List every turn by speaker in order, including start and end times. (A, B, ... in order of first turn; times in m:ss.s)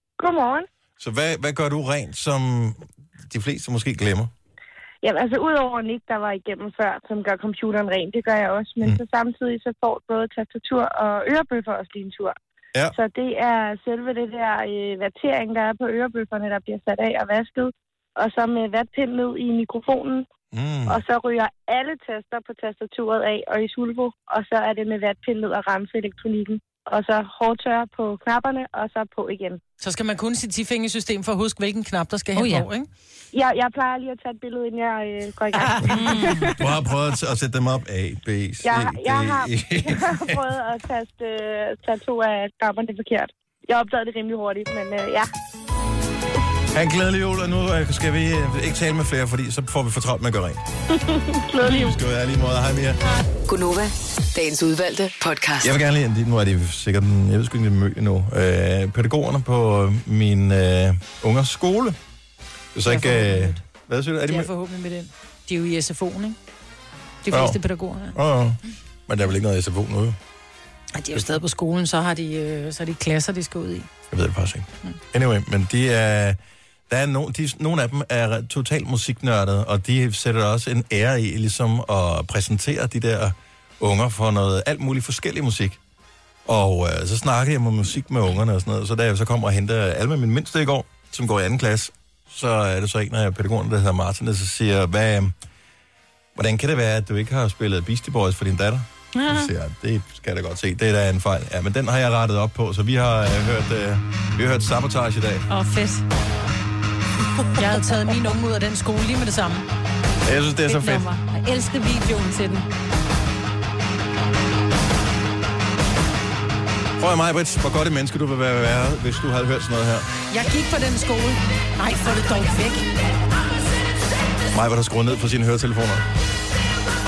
0:00.2-0:00.7 A
0:01.0-0:04.3 B
0:05.0-0:12.4 A
0:12.9-0:20.3 A
0:20.5-0:21.0 B
0:20.9-0:29.6 A
0:29.8-0:32.9 C
0:32.4-0:32.7 D
0:33.3-0:36.6 A
0:35.8-0:36.5 D
0:36.5-0:40.4 B
0:38.6-0:45.3 A
0:46.7-0:50.6 B
0:51.1-0:51.9 A
0:51.6-0:53.0 B
0:53.5-0:55.8 E
0:55.6-1:02.0 B
1:02.7-1:04.5 B
1:02.8-1:03.6 C
1:04.3-1:06.4 C
1:07.2-1:08.2 C
1:07.3-1:07.6 B
1:08.1-1:10.2 B
1:11.0-1:13.9 C
1:14.1-1:25.8 B
1:26.5-1:35.3 B
1:36.4-1:45.5 B
1:39.2-1:39.5 D
1:45.5-1:46.0 D
1:47.6-1:49.7 C
1:50.2-1:51.1 B
1:50.7-1:52.7 D
1:57.0-2:00.1 B
2:00.3-2:02.8 C
2:04.5-2:06.0 B